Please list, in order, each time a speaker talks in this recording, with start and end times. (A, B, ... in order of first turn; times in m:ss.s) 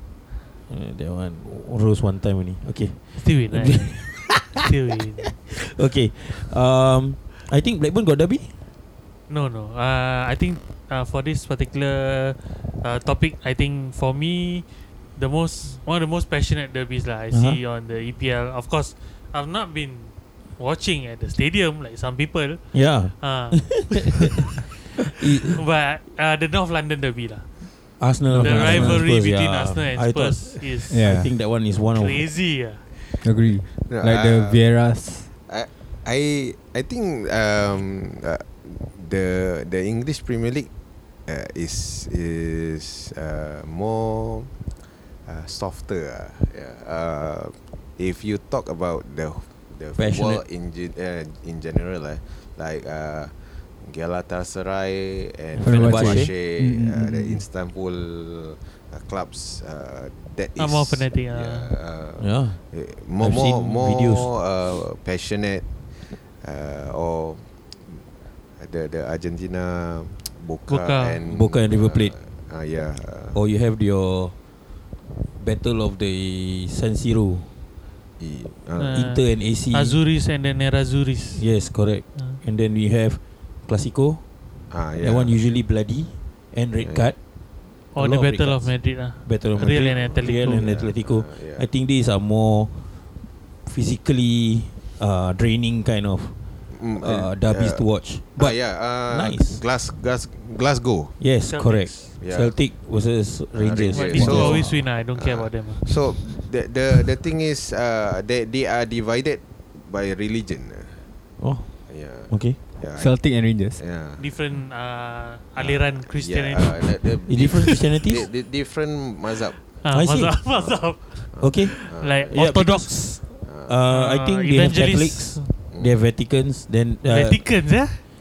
0:00.7-0:04.6 A
0:03.1-0:05.4 B
0:05.5-0:08.5 A
0:09.3-0:31.2 B
0:17.3-0:17.6 A
0:22.7-0:24.4 A
0:25.2-0:25.6 A
0:28.0-0:32.2 A
0:28.3-0:29.1 C
0:30.9-0:31.3 C
0:31.9-0:32.8 B
0:33.2-0:35.3 C
0:33.7-0:34.6 D
0:35.5-0:40.7 D
0:41.3-0:44.6 D
0:45.2-1:05.7 D
0:50.0-0:50.4 A
0:55.6-0:56.3 A
0:55.6-0:57.4 C
1:00.6-1:01.7 B
1:02.2-1:02.6 A
1:03.2-1:04.3 A
1:06.4-1:08.0 D
1:08.6-1:13.4 D
1:10.7-1:11.2 B
1:11.2-1:12.1 A
1:13.3-1:14.3 A
1:15.4-1:17.5 A
1:18.2-1:19.1 D
1:18.8-1:21.4 B
1:18.9-1:20.0 A
1:21.3-1:24.2 A
1:24.7-1:25.4 D
1:25.0-1:27.2 A
1:26.8-1:27.1 D
1:27.9-1:30.7 B
1:28.0-1:32.7 A
1:30.2-1:31.7 D
1:33.6-1:36.3 A
1:36.7-1:41.2 D
1:37.0-1:39.6 A
1:41.2-1:44.8 A
1:41.4-1:42.1 B
1:42.2-1:42.5 D
1:43.5-1:51.0 D
1:43.9-1:45.9 B
1:51.4-1:51.7 A
1:51.9-1:54.3 D
1:52.3-1:52.6 A
1:52.9-1:53.8 C
1:54.2-1:57.0 B
1:55.6-1:59.6 D
1:57.2-1:58.3 A
1:59.8-2:03.2 B
1:59.9-2:00.4 A
2:00.5-2:02.4 D
2:01.4-2:07.4 A
2:03.4-2:03.8 D
2:03.9-2:05.5 B
2:05.7-2:06.0 D
2:07.0-2:08.0 B